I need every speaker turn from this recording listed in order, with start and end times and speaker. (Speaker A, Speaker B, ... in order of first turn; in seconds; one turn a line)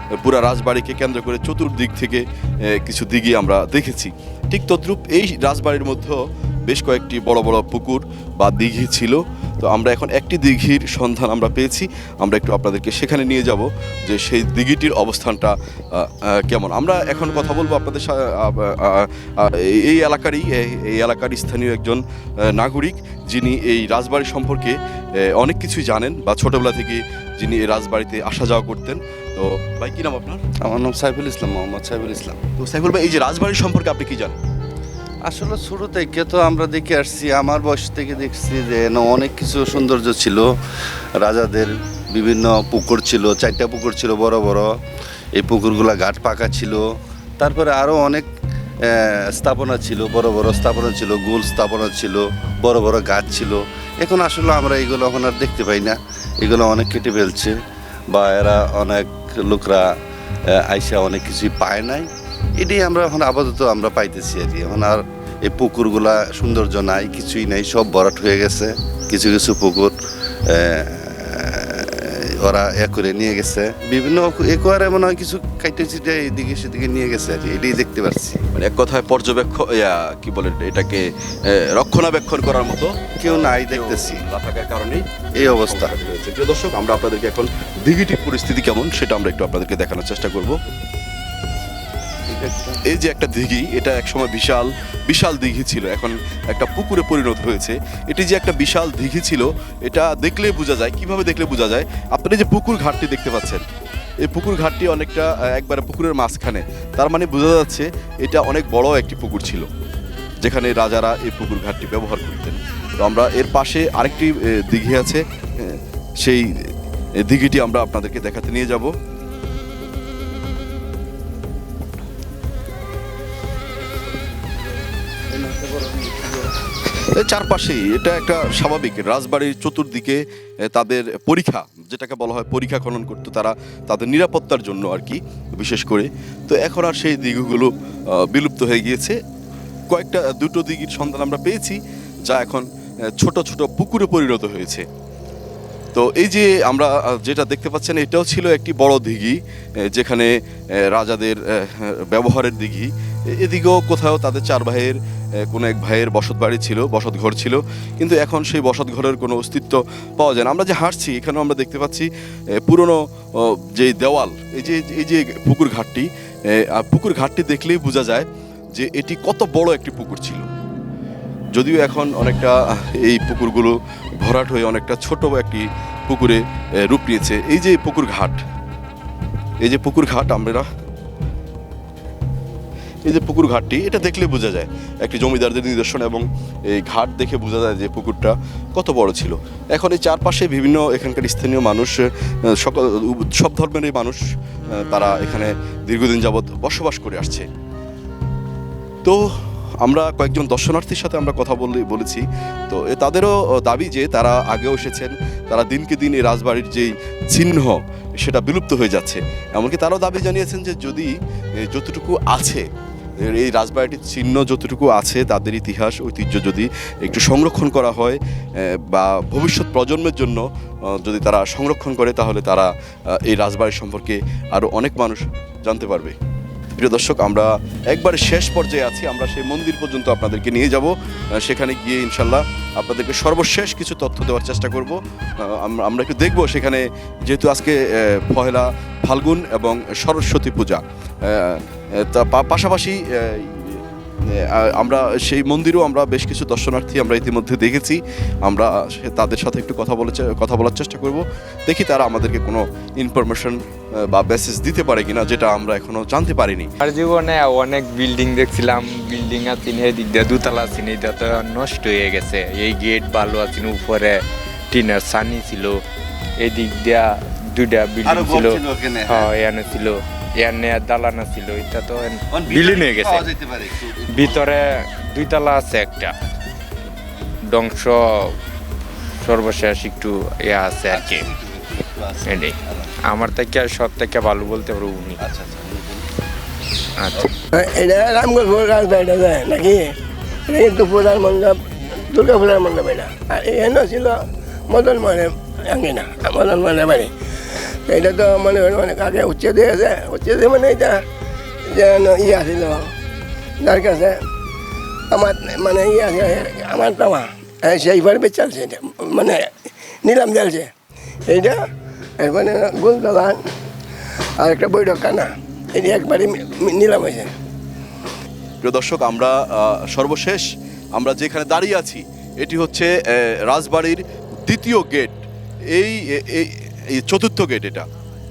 Speaker A: 0.2-30.4
Speaker B: 30.6-32.4
Speaker A: 32.6-34.4
Speaker B: 35.2-40.5
Speaker B: 41.2-44.7
Speaker B: 45.4-46.9
Speaker B: 47.4-48.3
Speaker B: 48.9-57.5
Speaker B: 58.1-59.9
Speaker B: 60.5-69.9
Speaker B: 70.5-78.4
Speaker A: 78.5-90.5
Speaker B: 83.2-84.2
Speaker B: 85.4-86.0
Speaker B: 92.3-92.8
Speaker A: 92.9-103.6
Speaker A: 104.2-109.7
Speaker A: 110.4-116.5
Speaker A: 117.2-118.9
Speaker A: 127.1-139.2
Speaker A: 139.9-142.6
Speaker A: 143.2-144.8
Speaker A: 145.9-149.4
Speaker A: 149.9-150.3
Speaker A: 150.9-155.0
Speaker A: 155.5-162.1
Speaker A: 162.6-168.2
Speaker A: 168.8-170.4
Speaker A: 171.5-178.4
Speaker A: 179.6-180.7
Speaker A: 183.0-194.2
Speaker A: 194.8-197.4
Speaker A: 199.8-212.7
Speaker A: 213.2-222.7
Speaker A: 223.2-226.1
Speaker A: 226.8-243.8
Speaker A: 244.3-256.7
Speaker C: 256.8-265.8
Speaker C: 266.4-273.2
Speaker B: 268.0-269.8
Speaker B: 272.3-274.6
Speaker C: 274.2-276.1
Speaker C: 277.5-278.3
Speaker C: 279.2-281.2
Speaker B: 280.9-282.9
Speaker C: 282.2-282.5
Speaker C: 283.1-285.1
Speaker B: 285.2-286.0
Speaker C: 287.0-287.3
Speaker D: 287.5-289.9
Speaker D: 290.5-297.1
Speaker D: 297.9-301.0
Speaker D: 301.7-302.9
Speaker D: 303.6-304.2
Speaker D: 305.1-309.5
Speaker D: 310.0-310.7
Speaker D: 311.3-311.6
Speaker D: 312.2-313.5
Speaker D: 314.4-317.3
Speaker A: 318.6-325.2
Speaker A: 325.7-327.8